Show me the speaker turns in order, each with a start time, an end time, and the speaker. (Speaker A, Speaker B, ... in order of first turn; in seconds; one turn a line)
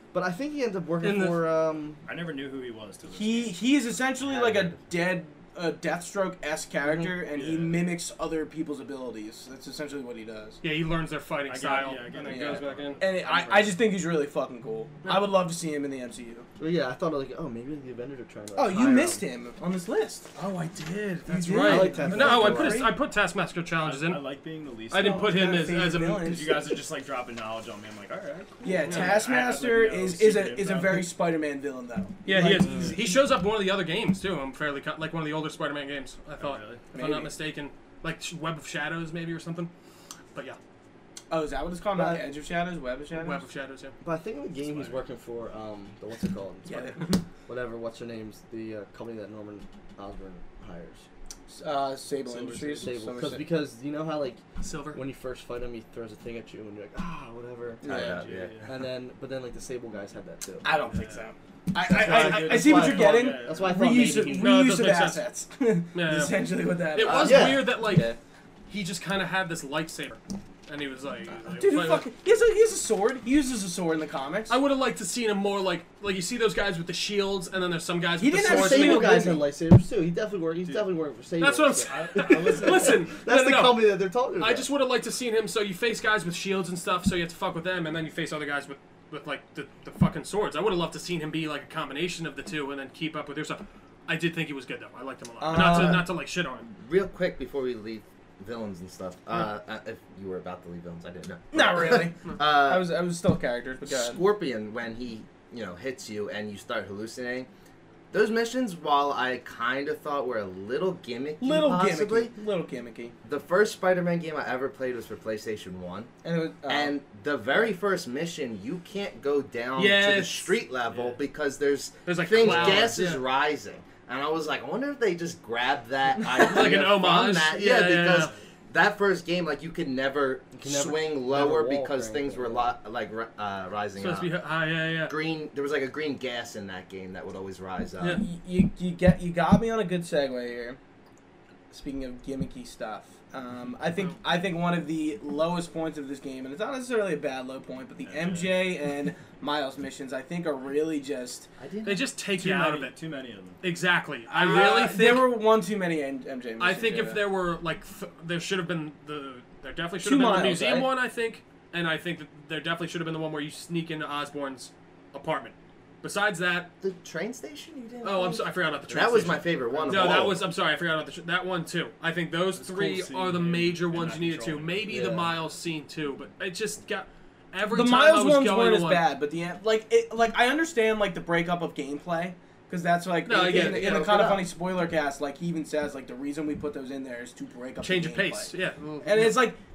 Speaker A: 0.1-2.0
Speaker B: 1.0-1.4
Speaker C: 2.0-3.6
Speaker D: 3.1-10.6
Speaker E: 4.2-4.8
Speaker A: 6.8-7.2
Speaker C: 7.3-8.0
Speaker B: 10.6-13.0
Speaker C: 11.5-13.8
Speaker D: 12.2-16.5
Speaker A: 16.6-19.2
Speaker D: 18.6-20.4
Speaker C: 20.4-20.7
Speaker B: 20.9-24.2
Speaker D: 21.2-23.0
Speaker A: 21.6-22.9
Speaker C: 23.8-25.5
Speaker B: 24.9-26.4
Speaker D: 25.0-26.8
Speaker C: 26.2-31.1
Speaker D: 28.6-33.2
Speaker B: 28.9-29.2
Speaker B: 32.2-39.7
Speaker C: 36.4-36.9
Speaker D: 36.9-37.3
Speaker D: 41.3-43.5
Speaker A: 42.0-42.3
Speaker B: 43.1-44.0
Speaker A: 44.0-51.1
Speaker C: 44.6-45.0
Speaker D: 46.7-47.2
Speaker D: 51.5-53.4
Speaker C: 52.2-52.9
Speaker A: 52.8-54.4
Speaker B: 54.6-55.0
Speaker A: 54.9-60.7
Speaker D: 57.8-58.2
Speaker E: 57.8-58.7
Speaker C: 58.0-58.7
Speaker D: 60.6-68.2
Speaker C: 60.7-61.3
Speaker A: 61.9-64.6
Speaker C: 61.9-64.3
Speaker B: 64.4-65.3
Speaker B: 65.9-68.1
Speaker A: 67.1-68.2
Speaker B: 68.7-72.1
Speaker D: 71.4-74.6
Speaker B: 74.5-79.2
Speaker D: 78.2-79.5
Speaker A: 78.4-84.7
Speaker B: 81.4-96.7
Speaker C: 81.8-83.2
Speaker D: 95.4-96.1
Speaker E: 95.5-96.0
Speaker E: 96.7-102.9
Speaker D: 101.5-104.2
Speaker E: 103.8-107.5
Speaker E: 108.1-112.3
Speaker D: 111.4-113.1
Speaker E: 113.2-116.1
Speaker D: 116.2-117.0
Speaker E: 116.7-134.4
Speaker B: 119.8-120.5
Speaker C: 120.9-121.2
Speaker B: 122.1-123.1
Speaker C: 122.5-122.8
Speaker B: 126.2-128.3
Speaker A: 130.5-132.8
Speaker B: 134.0-135.1
Speaker E: 135.1-138.2
Speaker B: 138.0-138.2
Speaker D: 138.2-140.8
Speaker D: 141.7-151.5
Speaker C: 148.0-148.7
Speaker E: 151.6-152.1
Speaker B: 151.8-153.0
Speaker C: 152.3-153.6
Speaker B: 153.6-155.4
Speaker D: 154.3-157.2
Speaker B: 156.6-166.7
Speaker D: 160.0-160.9
Speaker E: 166.8-170.4
Speaker B: 168.0-179.1
Speaker C: 169.1-170.2
Speaker C: 172.6-175.0
Speaker A: 174.9-175.3
Speaker D: 177.7-189.6
Speaker B: 183.3-184.1
Speaker E: 183.3-184.5
Speaker B: 187.8-189.5